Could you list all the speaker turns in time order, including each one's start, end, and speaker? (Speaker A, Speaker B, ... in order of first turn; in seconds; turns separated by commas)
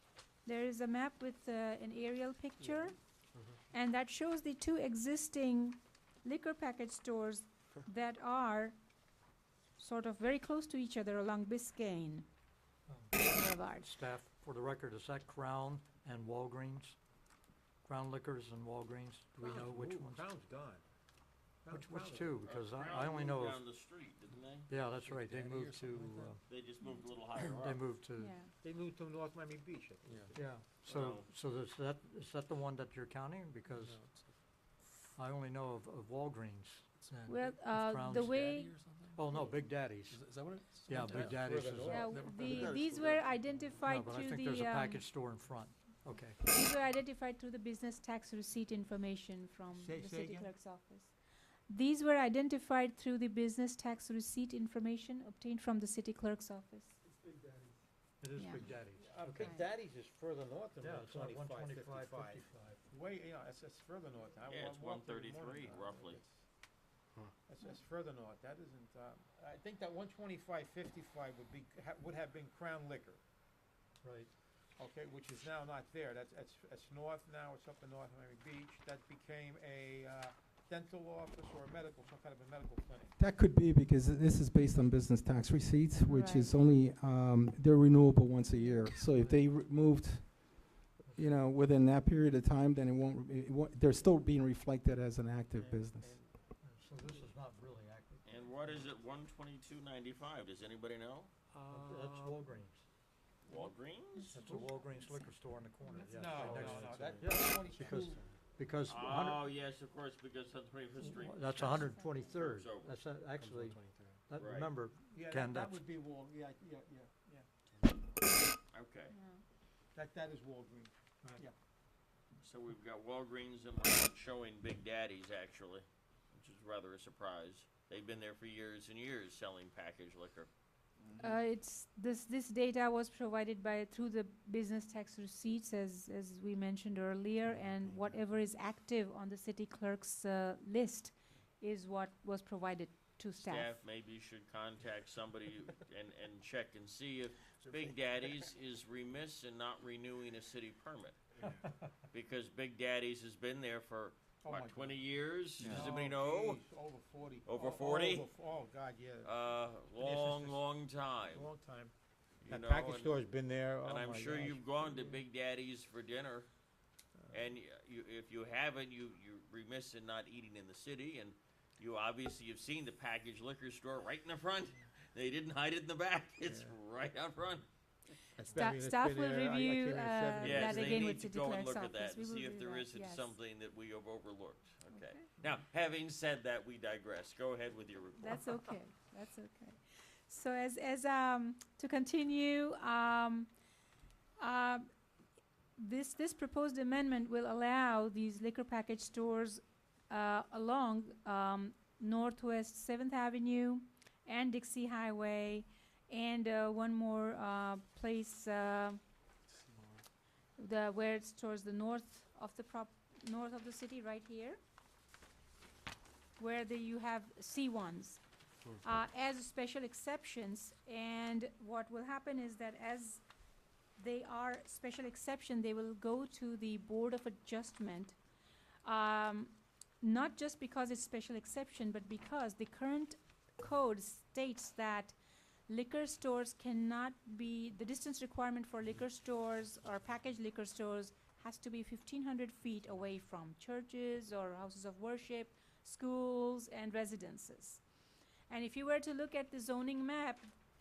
Speaker A: 0.4-3.0, Speaker A: 3.7-8.8, Speaker A: 9.8-12.3, Speaker B: 12.9-17.0, Speaker A: 13.1-13.9, Speaker B: 17.8-20.2, Speaker C: 19.4-20.8, Speaker C: 21.6-22.4, Speaker B: 21.7-23.6, Speaker D: 22.4-24.7, Speaker B: 24.7-26.4, Speaker E: 24.9-26.4, Speaker D: 26.5-27.8, Speaker B: 27.4-28.4, Speaker A: 28.2-28.5, Speaker C: 28.6-30.4, Speaker E: 30.0-30.4, Speaker B: 30.3-34.0, Speaker D: 30.9-31.3, Speaker E: 33.6-34.4, Speaker B: 35.1-40.2, Speaker E: 37.0-43.2, Speaker A: 37.3-38.8, Speaker B: 40.8-42.1, Speaker C: 41.2-43.1, Speaker A: 41.8-45.0, Speaker B: 43.8-46.4, Speaker A: 46.4-51.1, Speaker C: 49.7-50.5, Speaker A: 51.7-57.0, Speaker C: 57.0-57.8, Speaker B: 58.2-59.6, Speaker A: 58.4-58.7, Speaker C: 58.9-66.5, Speaker A: 59.4-59.6, Speaker B: 60.8-62.8, Speaker D: 64.5-66.2, Speaker C: 67.4-73.2, Speaker B: 74.0-74.3, Speaker C: 74.8-83.1, Speaker F: 83.2-96.3, Speaker A: 86.0-86.6, Speaker B: 89.0-89.5, Speaker B: 91.0-91.3, Speaker C: 95.5-96.3, Speaker B: 96.5-98.2, Speaker D: 98.2-101.3, Speaker C: 101.5-102.5, Speaker B: 101.7-102.8, Speaker D: 103.4-104.4, Speaker A: 104.1-105.3, Speaker B: 104.3-109.4, Speaker C: 105.9-108.2, Speaker E: 106.6-108.4, Speaker D: 108.8-113.0, Speaker B: 111.0-115.8, Speaker A: 111.6-112.3, Speaker E: 113.4-114.2, Speaker D: 114.4-114.8, Speaker C: 115.1-117.5, Speaker D: 118.7-119.1, Speaker A: 119.1-119.4, Speaker C: 119.9-121.5, Speaker D: 122.4-130.5, Speaker A: 131.2-143.8, Speaker E: 137.6-138.2, Speaker D: 143.4-151.3, Speaker E: 147.7-147.9, Speaker D: 152.1-156.6, Speaker C: 154.4-155.0, Speaker C: 155.6-159.4, Speaker D: 157.4-158.3, Speaker D: 159.2-161.5, Speaker C: 159.9-160.7, Speaker C: 161.3-161.9, Speaker D: 162.4-163.1, Speaker C: 162.5-165.2, Speaker D: 163.8-166.5, Speaker C: 167.1-167.5, Speaker D: 167.3-177.7, Speaker C: 176.4-176.8, Speaker C: 178.3-181.2, Speaker A: 178.5-183.3, Speaker D: 180.4-188.7, Speaker A: 184.9-185.2, Speaker A: 188.2-193.5, Speaker A: 194.4-194.9, Speaker A: 195.8-209.0, Speaker E: 209.5-210.0, Speaker A: 210.6-214.6, Speaker A: 216.4-218.2, Speaker A: 218.8-223.2, Speaker A: 224.0-228.2, Speaker A: 228.8-235.2, Speaker A: 235.7-247.8, Speaker A: 248.5-250.5